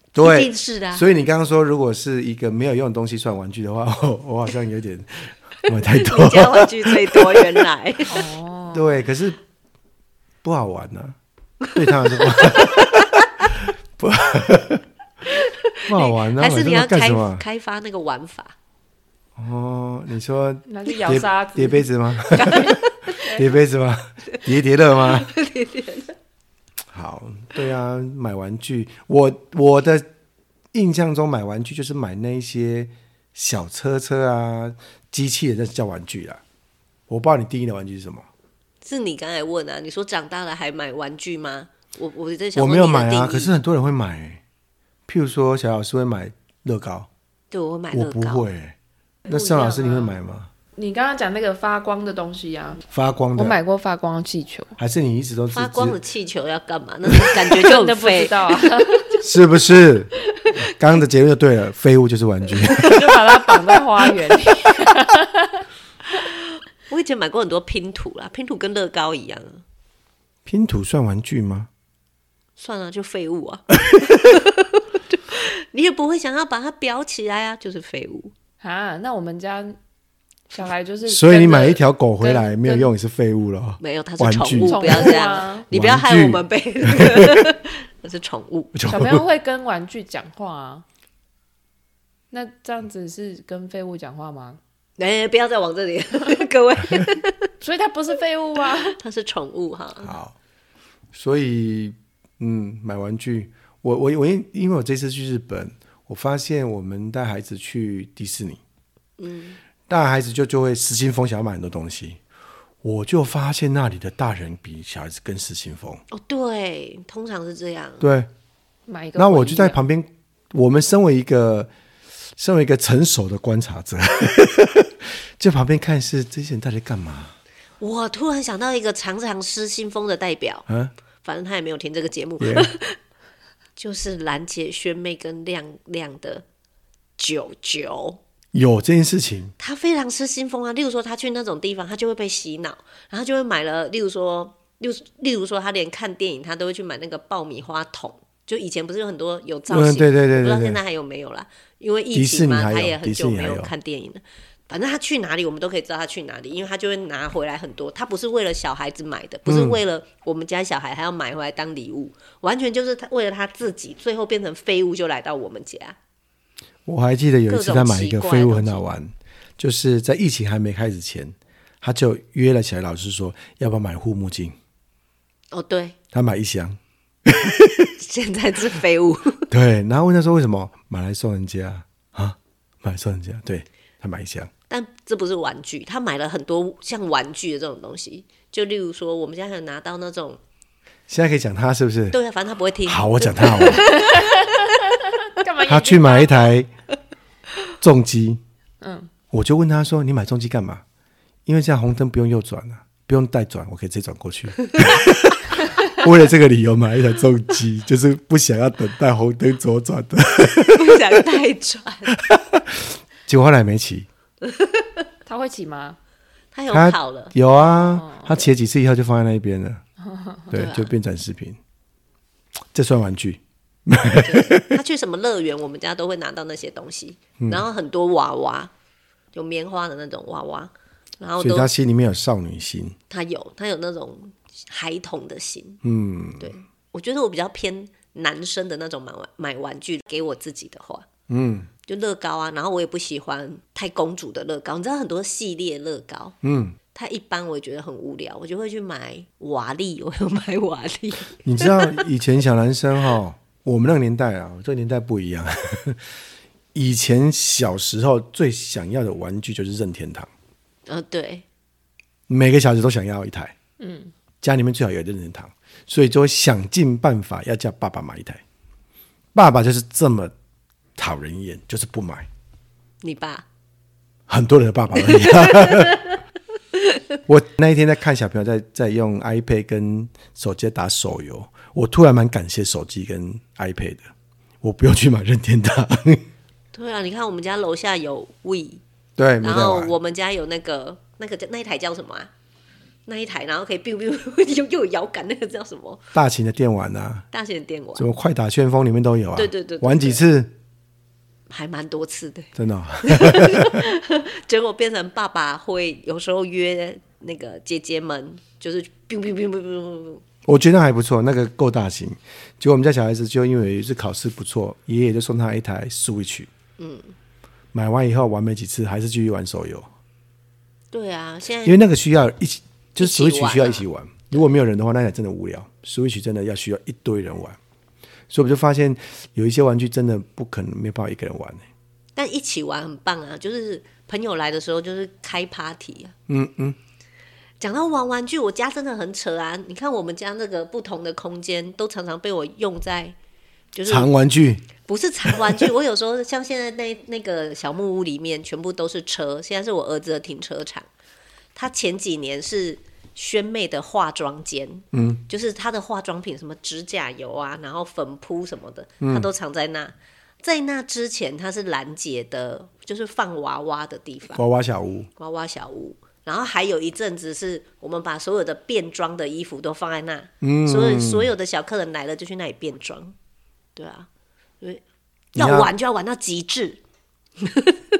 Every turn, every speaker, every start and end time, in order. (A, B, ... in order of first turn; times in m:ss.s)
0:00.1-0:07.5 A
0:00.2-0:01.0 B
0:05.8-0:08.1 B
0:08.1-0:09.0 C
0:08.7-0:09.4 A
0:10.4-0:11.2 A
0:11.7-0:14.8 A
0:15.3-0:18.5 B
0:15.9-0:17.4 A
0:19.4-0:25.3 A
0:20.7-0:22.7 C
0:22.4-0:23.2 B
0:25.0-0:26.1 B
0:26.9-0:30.1 A
0:30.7-0:36.4 A
0:37.1-0:38.3 A
0:38.8-0:43.5 B
0:42.5-0:44.4 A
0:45.0-0:47.1 A
0:47.5-0:48.4 B
0:47.9-0:48.8 A
0:49.2-0:50.1 B
0:49.3-0:50.5 A
0:50.8-0:52.8 C
0:52.9-0:53.6 A
0:53.3-0:54.7 C
0:54.8-0:56.0 A
0:55.5-0:59.0 B
0:57.6-0:59.1 C
0:59.2-1:03.1 A
1:02.8-1:05.6 C
1:06.1-1:09.6 B
1:10.4-1:11.7 A
1:12.6-1:18.3 B
1:18.6-1:19.8 C
1:20.5-1:22.9 C
1:21.0-1:27.5 A
1:23.8-1:28.7 B
1:24.6-1:25.6 C
1:28.7-1:29.2 A
1:28.9-1:30.8 C
1:32.3-1:34.6 C
1:35.0-1:37.5 B
1:37.6-1:39.0 C
1:38.9-1:40.1 B
1:40.0-1:40.3 A
1:41.1-1:48.6 A
1:49.2-1:49.6 B
1:49.9-1:52.2 A
1:52.8-1:56.0 A
1:56.1-1:58.0 B
1:58.0-1:58.3 A
1:58.9-1:59.8 C
1:59.2-2:01.7 A
2:02.4-2:07.3 A
2:07.8-2:10.6 B
2:11.2-2:13.0 B
2:12.4-2:12.7 A
2:13.8-2:16.4 B
2:17.2-2:18.2 B
2:18.5-2:19.5 A
2:19.6-2:46.0 B
2:29.7-2:30.8 A
2:32.1-2:33.7 A
2:39.4-2:39.8 A
2:46.8-2:54.5 A
2:47.5-2:48.8 B
2:55.5-2:56.0 B
2:56.1-2:57.9 A
2:58.0-2:59.4 B
2:59.5-3:04.5 A
3:04.7-3:10.4 B
3:11.1-3:12.2 A
3:12.1-3:14.6 B
3:12.8-3:13.9 A
3:15.4-3:16.5 C
3:15.7-3:16.7 A
3:17.8-3:18.4 A
3:18.8-3:19.1 C
3:19.3-3:20.8 A
3:21.4-3:31.2 A
3:30.7-3:32.2 B
3:32.2-3:34.1 A
3:34.4-3:34.9 B
3:35.2-3:36.0 C
3:36.5-3:37.3 B
3:36.7-3:39.8 A
3:37.9-3:38.4 C
3:40.0-3:40.4 C
3:40.5-3:41.6 A
3:40.5-3:40.9 B
3:42.7-3:44.8 A
3:44.2-3:48.7 B
3:49.3-3:51.7 B
3:51.4-3:53.0 A
3:53.1-3:55.8 B
3:55.8-3:56.5 A
3:56.4-4:01.1 B
4:01.3-4:01.7 A
4:01.9-4:06.4 B
4:06.4-4:06.8 A
4:06.9-4:12.0 B
4:11.4-4:16.0 A
4:16.7-4:20.3 A
4:20.9-4:21.4 B
4:22.3-4:23.5 A
4:23.8-4:24.1 C
4:24.4-4:28.4 A
4:29.3-4:30.3 A
4:31.0-4:32.3 A
4:33.0-4:33.4 B
4:34.3-4:36.0 A
4:35.1-4:36.2 B
4:37.3-4:44.1 A
4:44.6-4:46.3 A
4:46.7-4:48.8 B
4:49.2-4:49.9 A
4:49.4-4:52.3 B
4:53.0-4:56.0 B
4:56.1-4:57.2 A
4:57.3-4:58.0 B
4:58.0-5:00.5 A
4:59.3-5:00.2 B
5:01.5-5:10.2 B
5:02.6-5:03.8 A
5:10.4-5:16.5 A
5:16.8-5:17.1 B
5:17.7-5:19.9 A
5:20.9-5:21.8 B
5:21.6-5:27.6 A
5:23.0-5:23.8 B
5:28.3-5:31.6 A
5:32.2-5:36.1 B
5:36.3-5:36.8 A
5:37.6-5:43.2 B
5:43.7-5:44.1 B
5:43.8-5:44.7 A
5:44.8-5:50.9 B
5:45.3-5:45.6 A
5:51.5-6:04.4 B
5:54.9-5:55.2 A
5:59.0-5:59.3 A
6:04.3-6:05.1 A
6:05.2-6:13.1 B
6:10.4-6:11.3 A
6:13.8-6:14.1 B
6:15.3-6:15.7 A
6:15.3-6:16.8 B
6:17.4-6:17.8 B